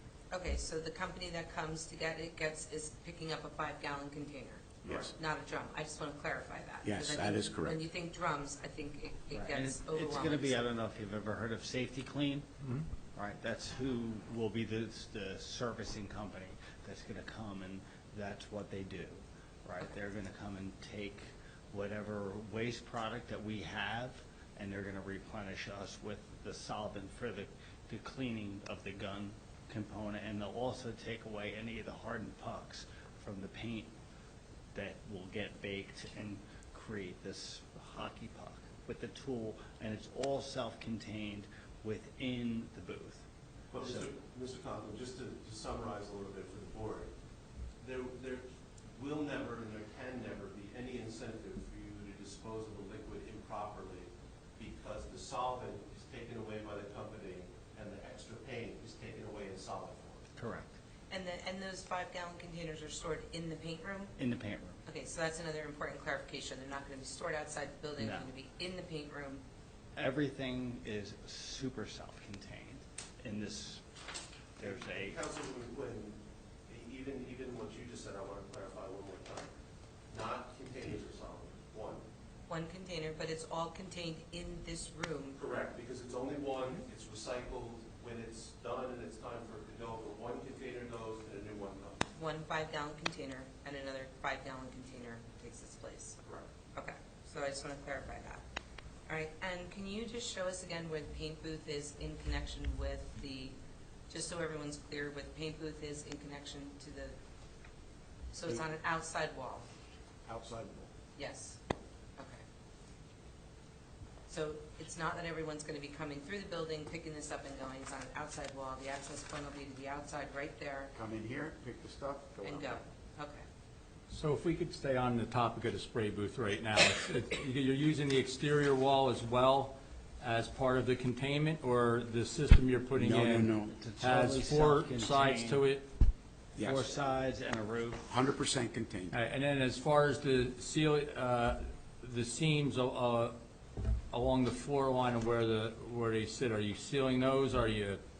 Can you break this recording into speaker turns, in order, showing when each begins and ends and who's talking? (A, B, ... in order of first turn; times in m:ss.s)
0:00.3-0:10.6 A
0:04.8-0:05.1 B
0:06.8-0:07.8 B
0:09.3-0:12.5 C
0:13.1-0:33.9 C
0:34.7-0:43.2 C
0:43.7-0:47.1 D
0:43.8-0:44.1 C
0:47.8-1:00.3 D
1:00.4-1:00.8 C
1:01.1-1:04.1 A
1:04.2-1:04.8 C
1:04.9-1:09.4 A
1:08.0-1:08.3 C
1:10.0-1:13.8 C
1:14.6-1:15.2 C
1:14.6-1:19.5 D
1:20.1-1:22.0 D
1:22.5-1:25.4 A
1:25.4-1:32.1 D
1:32.1-1:36.2 A
1:36.7-1:38.4 A
1:39.1-1:43.6 A
1:44.1-1:47.2 A
1:48.3-1:49.7 A
1:50.2-1:50.9 B
1:51.2-1:51.6 A
1:52.2-1:52.4 A
1:54.3-2:00.9 A
2:00.9-2:02.8 B
2:02.4-2:03.4 A
2:04.1-2:15.8 E
2:13.0-2:13.7 B
2:13.7-2:15.6 C
2:16.6-2:17.0 B
2:16.6-2:18.1 C
2:18.1-2:19.1 B
2:19.1-2:23.4 E
2:24.1-2:28.0 E